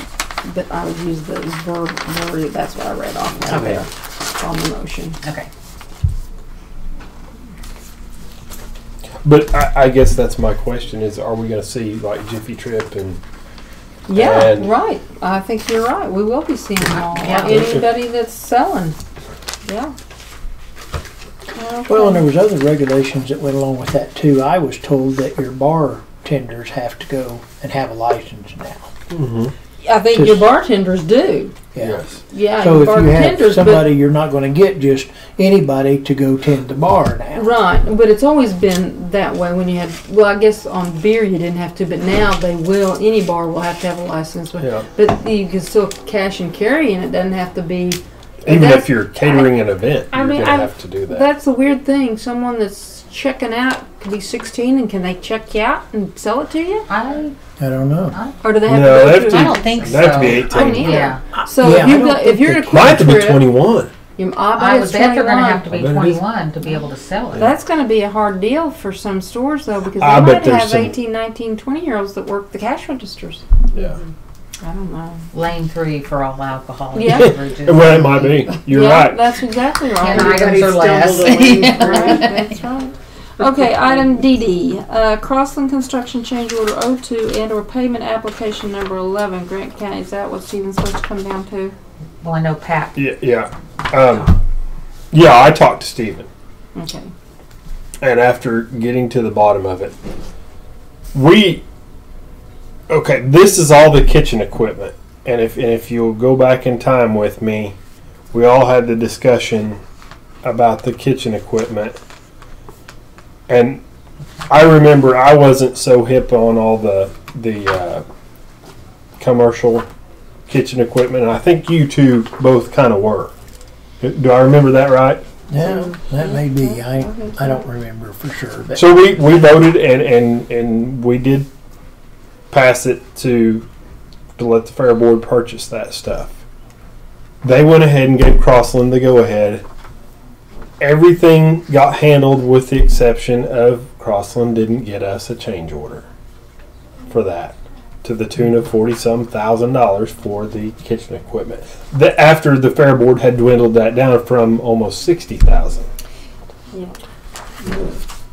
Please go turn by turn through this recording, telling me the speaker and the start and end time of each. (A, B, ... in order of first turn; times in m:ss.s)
0:00.4-0:05.2 A
0:03.5-0:03.8 B
0:05.2-0:05.5 C
0:09.2-0:13.2 B
0:14.1-0:19.0 A
0:14.1-0:14.7 B
0:17.0-0:17.6 C
0:17.4-0:17.9 B
0:19.6-0:19.9 A
0:21.5-0:22.3 A
0:21.9-0:28.9 D
0:29.1-0:29.5 B
0:29.8-0:31.5 A
0:30.1-0:30.5 D
0:31.7-0:32.0 D
0:31.8-0:32.2 B
0:32.3-0:33.9 A
0:32.6-0:37.6 D
0:37.3-0:49.5 A
0:44.6-0:44.9 B
0:48.4-0:51.3 B
0:50.1-0:56.9 A
0:56.9-0:57.4 C
0:57.6-0:58.2 D
0:58.1-0:58.4 C
0:58.4-1:03.4 A
0:58.7-1:00.9 B
0:58.9-1:01.2 C
1:00.4-1:03.0 D
1:02.7-1:03.9 B
1:04.2-1:05.7 A
1:04.6-1:07.5 C
1:05.7-1:06.2 B
1:07.3-1:13.4 A
1:10.0-1:11.0 B
1:13.7-1:14.0 B
1:14.6-1:15.3 A
1:15.3-1:18.4 C
1:16.9-1:17.4 A
1:17.6-1:19.2 B
1:18.6-1:20.6 A
1:20.0-1:22.5 C
1:20.1-1:22.4 D
1:21.6-1:31.8 A
1:32.2-1:33.0 C
1:33.0-1:34.3 B
1:35.1-1:36.3 B
1:36.8-1:37.1 A
1:38.0-1:40.0 B
1:41.1-1:41.6 B
1:42.9-1:47.8 B
1:48.3-1:49.8 B
1:50.4-1:52.0 B
1:53.5-1:53.8 B
1:54.5-1:58.0 B
1:59.2-1:59.9 B
2:00.5-2:03.3 B
2:04.0-2:05.2 B
2:05.5-2:08.9 D
2:05.6-2:07.6 A
2:08.8-2:11.5 B
2:12.5-2:13.6 B
2:14.4-2:16.4 B
2:17.4-2:19.6 B
2:20.8-2:26.0 B
2:27.1-2:35.9 B
2:36.7-2:37.0 A